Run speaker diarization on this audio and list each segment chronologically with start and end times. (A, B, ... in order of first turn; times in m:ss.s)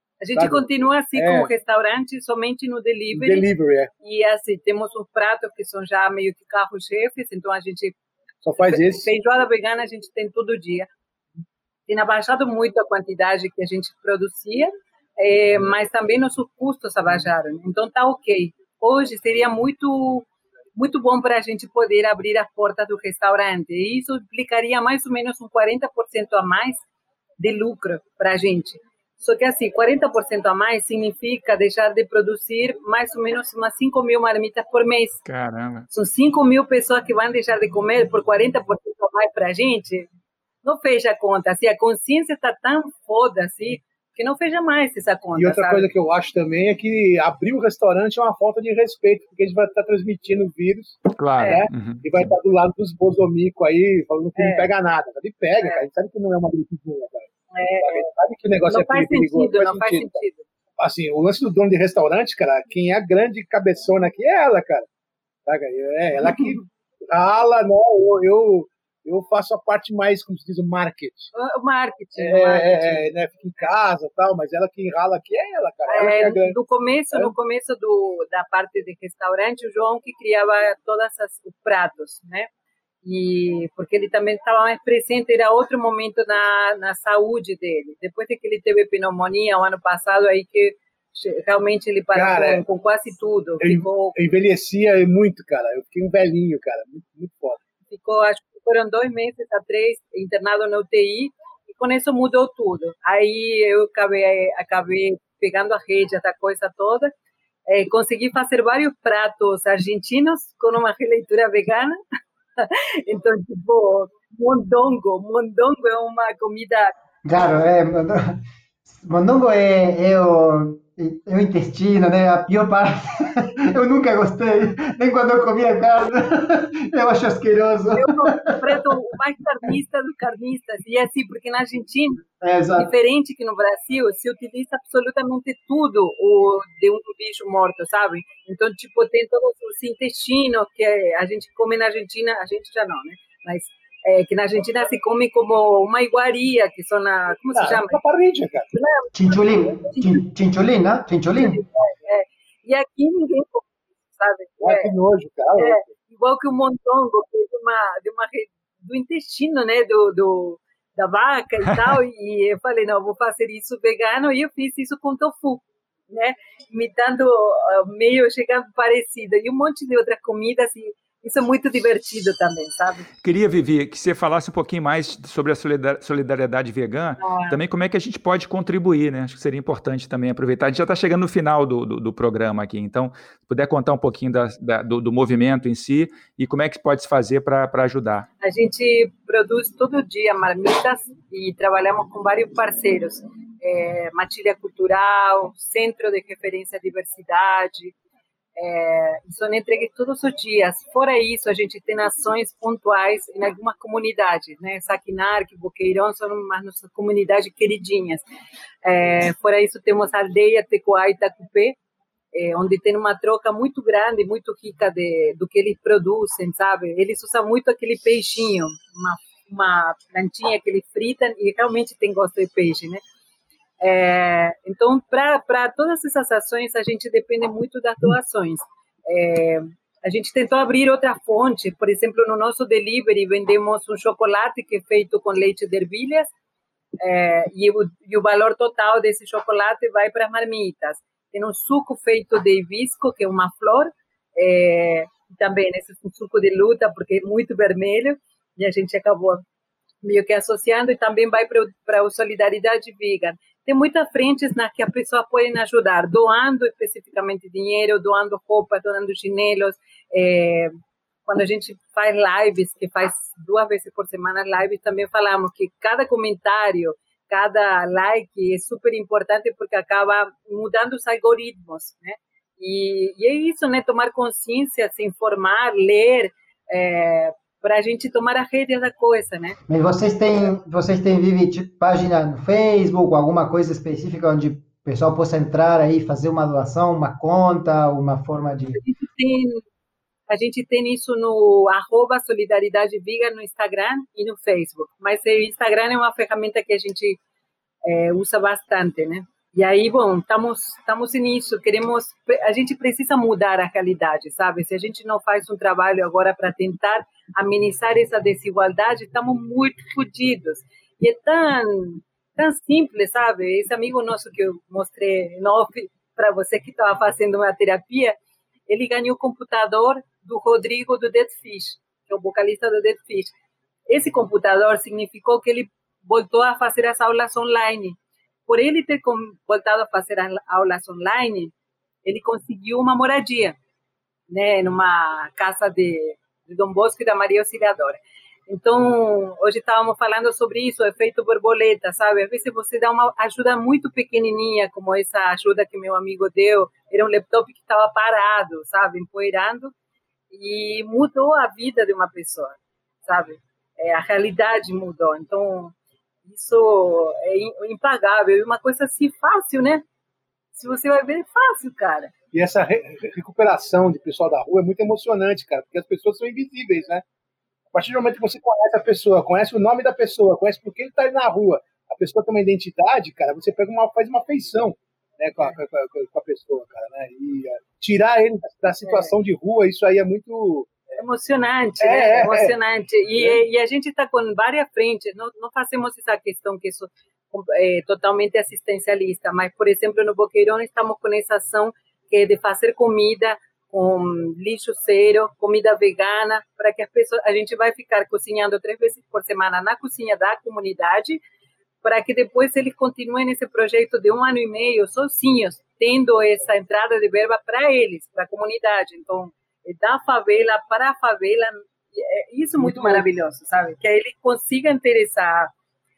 0:00.2-0:03.5 A
0:00.3-0:01.5 B
0:03.1-0:03.9 B
0:04.0-0:08.0 A
0:08.4-0:09.1 B
0:08.6-0:10.9 A
0:11.9-0:26.8 A
0:27.4-0:35.2 A
0:35.2-0:35.9 C
0:35.9-0:40.1 A
0:40.6-0:45.9 A
0:45.4-0:57.3 B
0:51.1-0:52.3 C
0:51.4-0:51.6 A
0:54.4-0:54.7 A
0:55.6-0:55.8 A
0:57.5-0:58.1 A
0:57.8-1:00.2 B
0:58.7-1:00.4 A
1:00.8-1:04.9 B
1:05.4-1:11.3 B
1:06.2-1:06.6 A
1:11.3-1:13.7 A
1:12.2-1:16.6 B
1:15.9-1:22.5 A
1:23.0-1:34.1 A
1:32.1-1:32.6 B
1:33.6-1:37.6 B
1:37.9-1:47.1 A
1:47.7-1:52.0 A
1:52.6-1:56.9 A
1:57.2-2:09.0 D
2:07.9-2:12.2 A
2:12.4-2:12.9 D
2:12.8-2:28.0 A
2:27.5-2:28.7 B
2:28.7-2:30.2 A
2:29.1-2:31.6 D
2:31.4-2:34.9 A
2:34.6-2:35.9 B
2:35.6-2:53.1 A
2:53.2-3:08.3 C
2:57.2-2:57.6 A
3:08.4-3:17.9 A
3:18.6-3:28.2 A
3:28.8-3:31.8 A
3:32.3-3:43.0 A
3:43.8-3:56.3 A
3:57.0-4:09.4 A
4:10.0-4:20.7 A
4:21.2-4:39.6 A
4:39.7-4:48.8 D
4:48.7-4:49.6 A
4:50.3-4:57.2 A
4:57.8-5:18.2 A
5:18.7-5:23.3 A
5:23.9-5:31.5 A
5:32.0-5:33.6 A
5:34.3-5:49.7 A
5:50.3-5:55.7 A
5:56.2-5:59.8 A
6:00.5-6:02.1 A
6:02.3-6:07.0 B
6:07.7-6:20.8 B
6:18.8-6:19.1 A
6:21.0-6:41.2 A
6:21.8-6:22.5 B
6:41.8-6:55.5 A
6:52.6-6:53.0 B